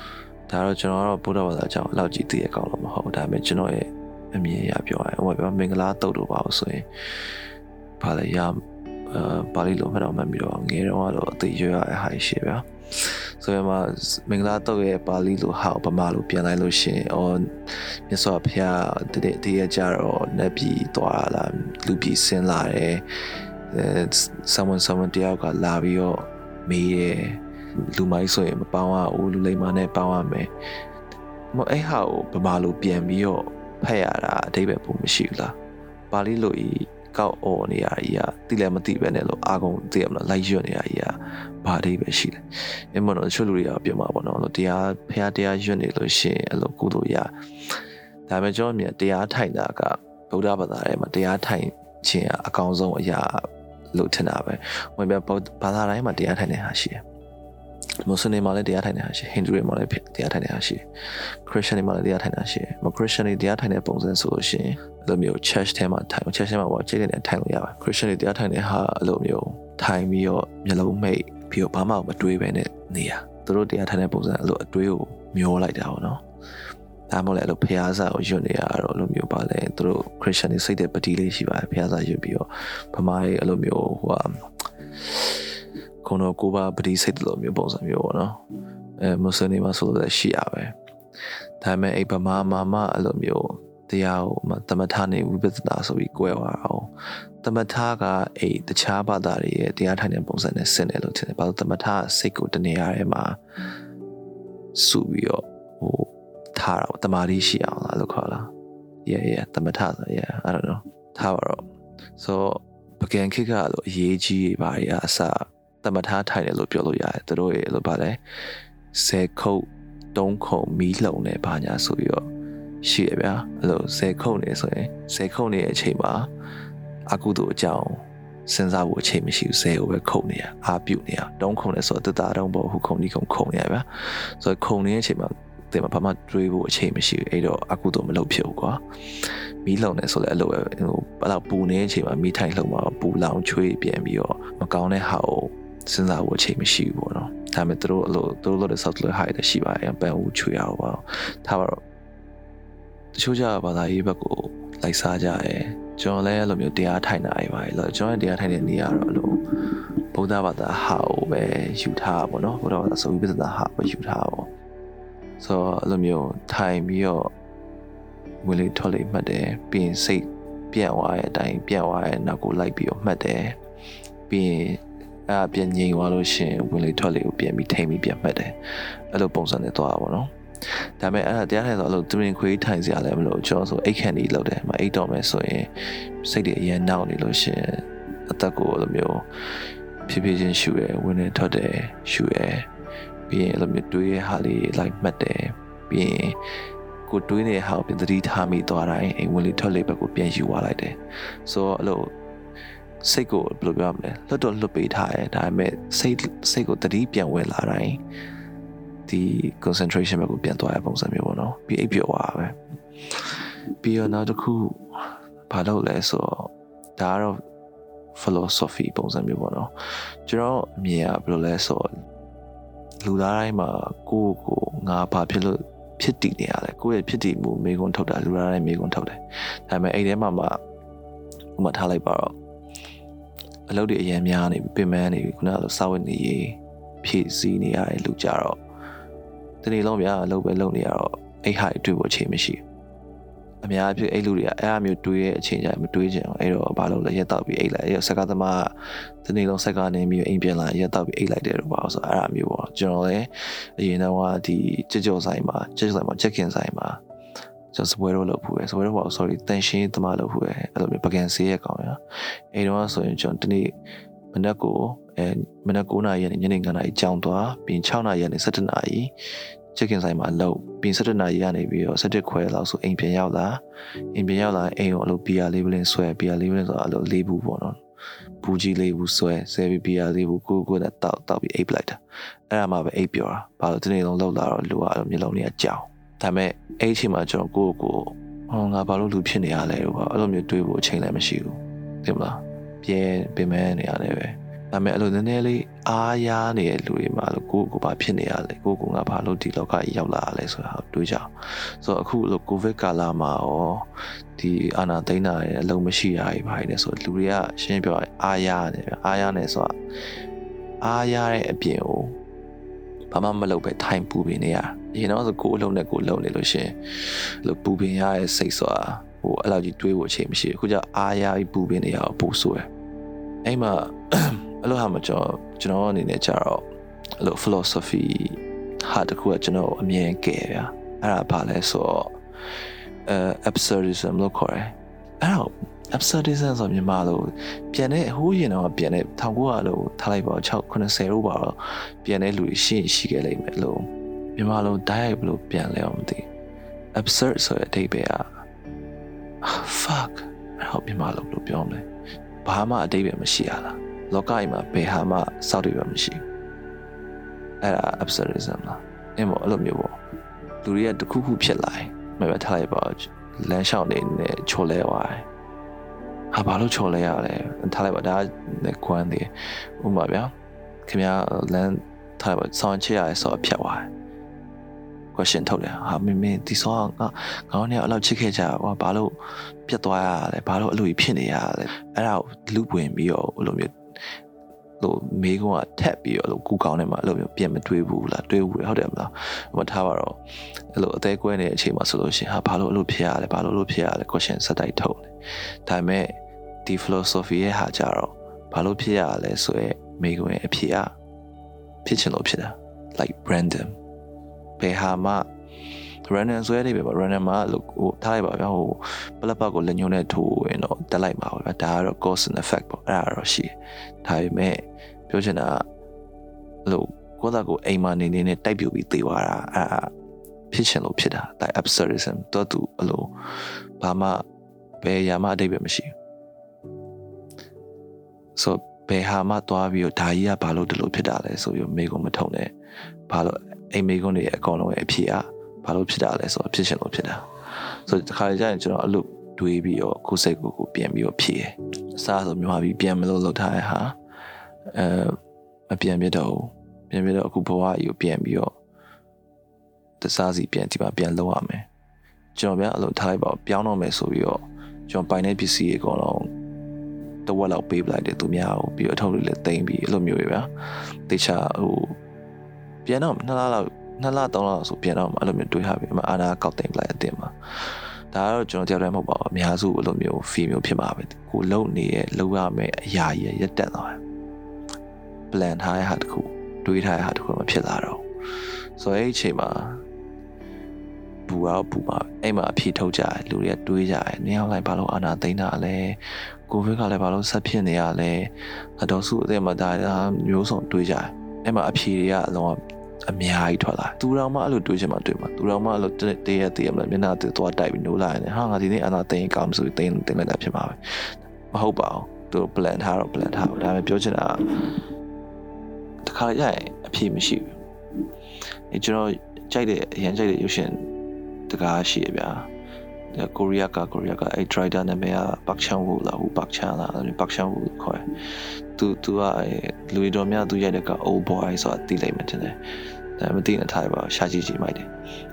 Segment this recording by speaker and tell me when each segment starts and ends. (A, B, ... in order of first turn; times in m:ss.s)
0:00.5-0:06.9 A
0:08.0-0:23.0 A
0:23.7-0:30.5 A
0:31.5-0:35.6 A
0:36.1-0:42.4 A
0:42.9-0:47.3 A
0:48.3-0:57.0 A
0:58.0-1:00.8 A
1:01.4-1:16.2 A
1:17.1-1:24.4 A
1:25.0-1:25.4 A
1:26.0-1:28.4 A
1:29.0-1:30.7 A
1:31.6-1:36.9 A
1:37.4-1:43.4 A
1:44.7-1:48.5 A
1:49.0-1:51.6 A
1:52.2-1:58.2 A
1:58.9-2:02.2 A
2:02.8-2:06.3 A
2:07.1-2:18.8 A
2:19.6-2:31.8 A
2:33.1-2:39.4 A
2:40.1-2:44.5 A
2:45.4-2:47.3 A
2:48.4-2:53.6 A
2:54.3-2:58.6 A
2:59.1-3:00.3 A
3:01.0-3:05.7 A
3:06.2-3:09.2 A
3:10.1-3:12.7 A
3:13.3-3:16.4 A
3:17.0-3:22.1 A
3:23.0-3:28.0 A
3:29.1-3:32.6 A
3:33.1-3:34.8 A
3:35.5-3:37.4 A
3:38.1-3:39.7 A
3:40.2-3:41.9 A
3:43.0-3:50.6 A
3:51.6-3:52.3 A
3:53.7-3:58.6 A
3:59.6-4:02.6 A
4:03.6-4:17.0 A
4:17.7-4:22.0 A
4:22.5-4:23.7 A
4:24.3-4:29.1 A
4:29.7-4:33.6 A
4:34.1-4:37.8 A
4:38.4-5:09.7 A
5:10.8-5:12.2 A
5:13.1-5:22.7 A
5:23.4-5:26.7 A
5:27.2-5:32.2 A
5:33.0-5:46.3 A
5:46.9-5:48.2 A
5:49.4-5:51.8 A
5:52.4-5:56.2 A
5:57.6-6:00.0 A
6:00.6-6:05.2 A
6:06.3-6:10.3 A
6:10.8-6:13.9 A
6:15.1-6:23.7 A
6:24.8-6:30.2 A
6:30.7-6:35.1 A
6:35.6-6:40.9 A
6:41.8-6:43.7 A
6:44.6-6:45.3 A
6:46.1-6:55.6 A
6:56.6-6:59.9 A
7:00.5-7:03.1 A
7:03.8-7:04.2 A
7:04.8-7:05.9 A
7:08.4-7:12.5 A
7:13.1-7:17.2 A
7:17.8-7:23.9 A
7:24.7-7:25.2 A
7:25.7-7:28.5 A
7:30.0-7:31.6 A
7:32.3-7:36.3 A
7:37.2-7:40.5 A
7:41.1-7:42.0 A
7:42.8-7:54.0 A
7:55.3-7:58.0 A
7:58.8-7:59.8 A
8:01.3-8:20.8 A
8:21.5-8:24.4 A
8:26.0-8:27.5 A
8:28.7-8:30.9 A
8:31.5-8:32.5 A
8:33.1-8:38.0 A
8:38.8-8:42.6 A
8:43.2-8:44.9 A